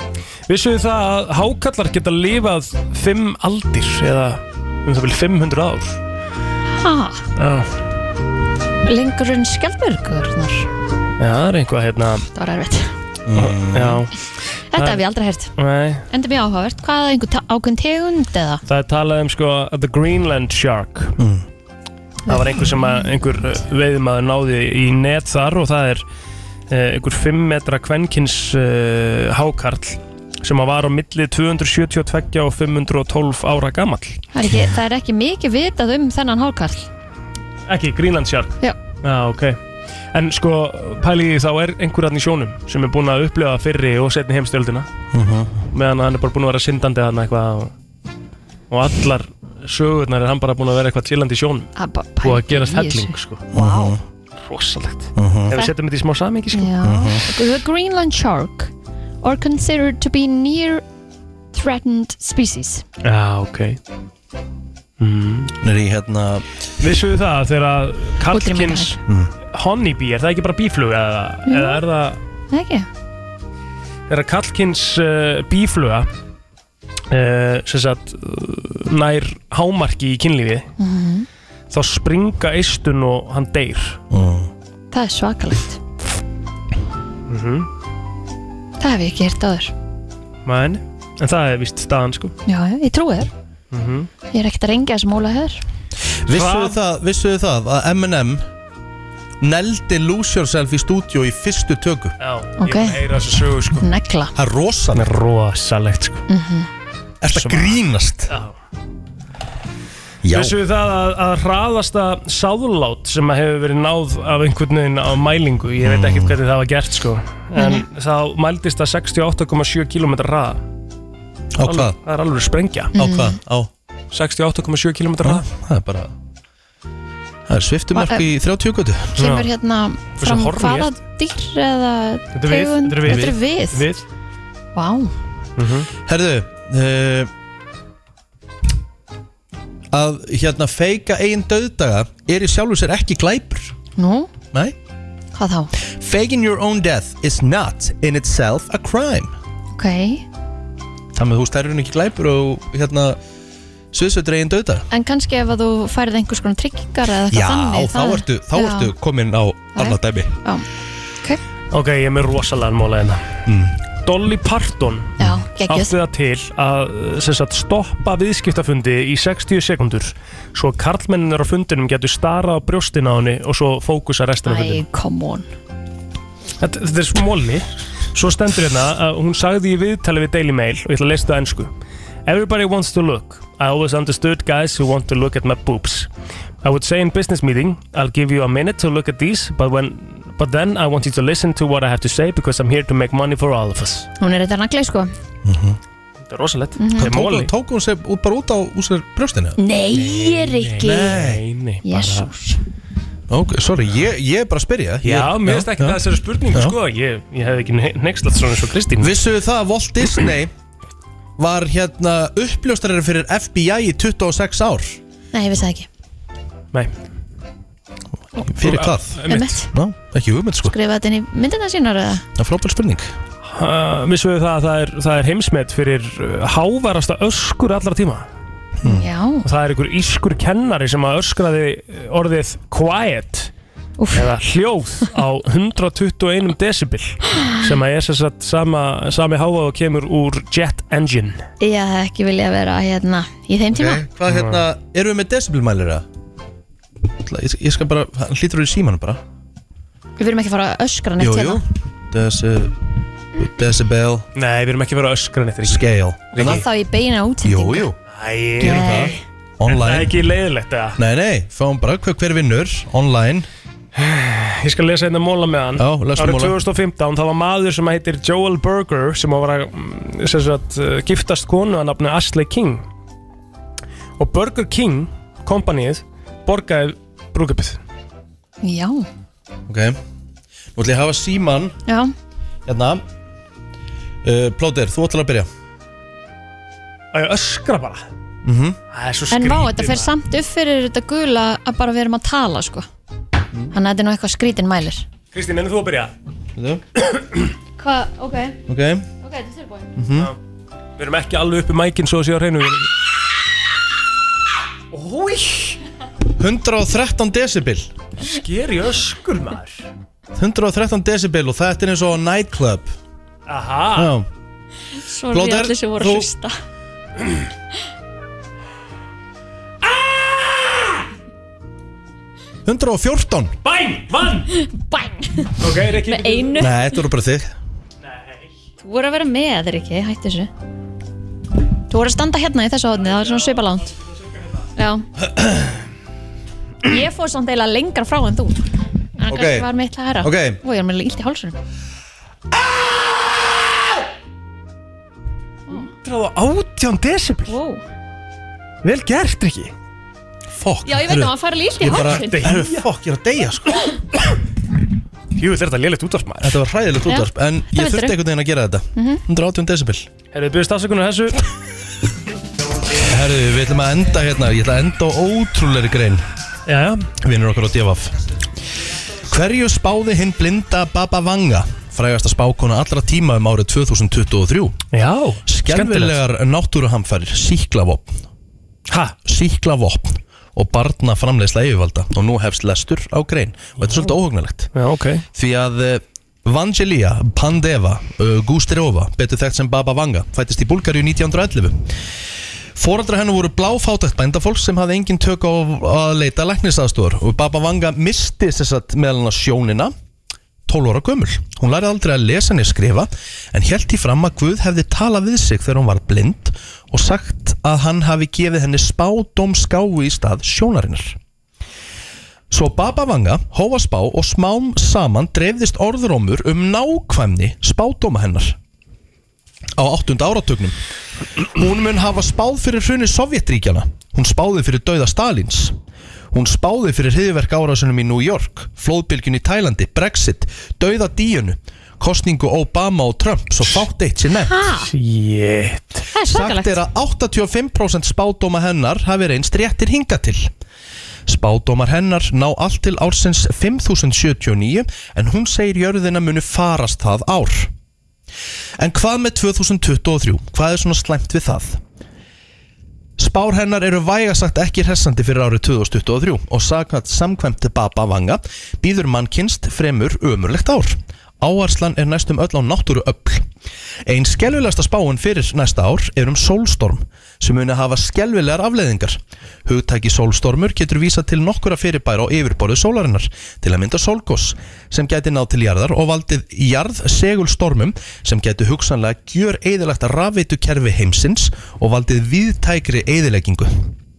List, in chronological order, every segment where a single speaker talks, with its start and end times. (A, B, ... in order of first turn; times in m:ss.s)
0:00.5-0:06.0 A
0:06.8-0:07.2 B
0:07.4-0:07.7 A
0:08.8-0:10.7 B
0:11.2-0:12.3 A
0:12.4-0:12.9 B
0:13.3-0:14.1 C
0:13.4-0:14.1 A
0:14.7-0:15.5 B
0:14.8-0:15.0 A
0:15.6-0:16.0 A
0:16.1-0:18.6 B
0:18.7-0:21.2 A
0:21.2-0:21.4 C
0:22.3-0:26.0 A
0:22.3-0:23.1 B
0:26.7-0:34.2 A
0:34.3-0:36.9 B
0:37.7-0:39.6 A
0:40.1-0:44.9 A
0:45.1-0:45.6 C
0:45.7-0:47.7 A
0:48.7-0:53.4 A
0:51.8-0:54.0 B
0:53.5-0:54.0 C
0:54.4-0:56.7 A
0:55.2-0:55.5 C
0:56.5-1:00.8 B
0:56.8-0:57.2 C
1:01.5-1:02.8 B
1:03.0-1:03.8 A
1:05.0-1:05.5 A
1:05.6-1:06.4 C
1:06.8-1:09.0 A
1:08.3-1:08.9 B
1:09.1-1:09.3 C
1:09.5-1:12.2 A
1:11.5-1:11.8 B
1:12.5-1:12.9 B
1:14.1-1:16.1 A
1:17.1-1:20.7 A
1:20.8-1:21.3 B
1:21.7-1:24.0 A
1:24.1-1:24.5 C
1:24.9-1:25.8 B
1:27.3-1:27.7 A
1:28.8-1:29.7 B
1:30.4-1:32.3 A
1:32.5-1:33.3 B
1:33.7-1:34.1 A
1:34.3-1:35.6 B
1:36.2-1:38.5 C
1:36.3-1:36.8 A
1:39.4-1:42.2 C
1:42.2-1:43.9 A
1:42.6-1:43.0 B
1:43.8-1:44.3 B
1:44.4-1:45.1 C
1:44.9-1:46.2 A
1:46.3-1:46.7 B
1:47.2-1:48.3 C
1:47.3-1:48.6 A
1:50.2-1:50.6 C
1:50.3-2:00.6 A
1:55.8-1:56.4 C
1:57.6-1:57.8 B
2:01.6-2:02.0 C
2:01.6-2:02.9 A
2:03.0-2:03.4 B
2:03.0-2:03.7 C
2:04.1-2:05.5 A
2:05.2-2:06.1 C
2:07.5-2:09.2 C
2:07.9-2:08.3 B
2:09.2-2:13.8 B
2:09.2-2:09.5 A
2:10.2-2:10.9 A
2:12.3-2:14.0 A
2:13.0-2:13.4 C
2:14.8-2:15.1 B
2:15.6-2:15.9 A
2:16.1-2:17.3 C
2:19.9-2:23.7 C
2:24.0-2:24.3 B
2:25.3-2:25.7 B
2:25.8-2:29.3 C
2:29.7-2:30.2 B
2:31.1-2:33.2 C
2:33.9-2:34.9 C
2:34.9-2:38.9 B
2:37.3-2:40.3 C
2:39.8-2:40.7 B
2:41.7-2:43.3 A
2:43.5-2:43.8 C
2:44.0-2:54.8 A
2:45.2-2:45.9 B
2:54.4-2:55.5 B
2:56.6-3:01.7 A
3:02.3-3:06.1 A
3:06.6-3:14.1 A
3:14.2-3:15.1 B
3:15.4-3:15.8 C
3:16.3-3:17.5 A
3:16.8-3:17.1 B
3:17.0-3:19.6 C
3:19.6-3:21.2 B
3:19.9-3:22.5 A
3:20.8-3:21.4 C
3:21.8-3:22.3 B
3:23.3-3:26.0 C
3:25.0-3:29.2 A
3:26.5-3:26.8 C
3:29.0-3:30.5 C
3:31.4-3:35.0 C
3:35.3-3:35.9 B
3:38.5-3:40.7 C
3:38.6-3:39.5 A
3:39.3-3:39.7 B
3:40.6-3:42.2 B
3:42.4-3:43.1 C
3:43.5-3:48.3 A
3:48.8-3:49.1 C
3:48.9-3:49.4 B
3:49.4-3:53.5 A
3:54.0-3:54.3 B
3:54.1-4:01.4 A
4:01.6-4:04.0 B
4:03.7-4:06.1 C
4:04.3-4:04.6 A
4:07.2-4:09.2 C
4:10.2-4:11.6 B
4:11.2-4:12.8 C
4:13.4-4:14.3 C
4:14.4-4:16.6 A
4:15.6-4:16.6 C
4:16.3-4:17.9 B
4:17.4-4:18.0 C
4:18.1-4:19.1 A
4:18.6-4:20.1 C
4:18.6-4:19.2 B
4:19.7-4:21.0 A
4:21.0-4:23.5 C
4:23.9-4:32.8 A
4:25.8-4:26.6 C
4:34.2-4:37.8 A
4:38.6-4:39.1 B
4:39.7-4:40.0 C
4:40.8-4:41.8 C
4:41.9-4:42.1 B
4:42.7-4:43.0 C
4:44.2-4:45.5 C
4:47.1-4:48.0 A
4:48.4-4:48.8 C
4:48.9-4:50.1 A
4:49.3-4:52.9 B
4:53.7-4:55.0 B
4:55.3-4:56.1 A
4:56.6-4:56.8 C
4:57.0-4:57.5 A
4:57.8-4:58.6 B
4:58.7-4:59.1 C
4:59.2-4:59.9 B
5:00.0-5:00.3 C
5:01.0-5:02.9 A
5:04.9-5:05.8 A
5:06.4-5:07.9 C
5:08.2-5:09.9 A
5:10.4-5:12.9 C
5:13.5-5:14.1 A
5:14.0-5:14.3 C
5:15.0-5:16.5 B
5:15.3-5:16.3 C
5:19.8-5:21.0 A
5:22.7-5:23.6 C
5:23.6-5:24.5 A
5:24.5-5:27.0 B
5:25.6-5:26.7 A
5:26.6-5:27.5 C
5:28.8-5:30.5 B
5:31.9-5:33.9 B
5:34.8-5:35.0 B
5:35.2-5:35.8 C
5:36.8-5:38.6 B
5:39.2-5:41.6 B
5:39.3-5:39.7 C
5:40.2-5:40.6 C
5:45.7-5:47.6 A
5:47.5-5:47.8 B
5:48.8-5:49.7 A
5:50.6-5:53.8 C
5:50.9-5:52.6 B
5:51.9-5:52.8 A
5:55.4-5:56.6 A
5:56.4-6:00.1 C
5:57.1-5:58.2 B
5:59.0-5:59.2 B
6:00.3-6:01.4 A
6:03.0-6:06.2 C
6:06.7-6:07.1 A
6:07.2-6:08.1 C
6:09.3-6:14.8 C
6:14.9-6:16.2 A
6:15.5-6:18.2 C
6:18.9-6:19.2 A
6:19.2-6:24.7 C
6:23.8-6:24.1 A
6:24.7-6:25.2 A
6:25.4-6:31.9 C
6:32.8-6:39.9 C
6:40.7-6:51.2 C
6:52.5-6:58.6 C
6:59.8-7:00.8 C
7:01.6-7:05.8 C
7:06.3-7:14.6 C
7:14.5-7:14.9 B
7:14.9-7:16.0 A
7:16.1-7:16.8 B
7:16.3-7:20.5 C
7:21.3-7:27.7 C
7:28.8-7:31.8 C
7:33.2-7:43.5 C
7:44.1-8:03.9 C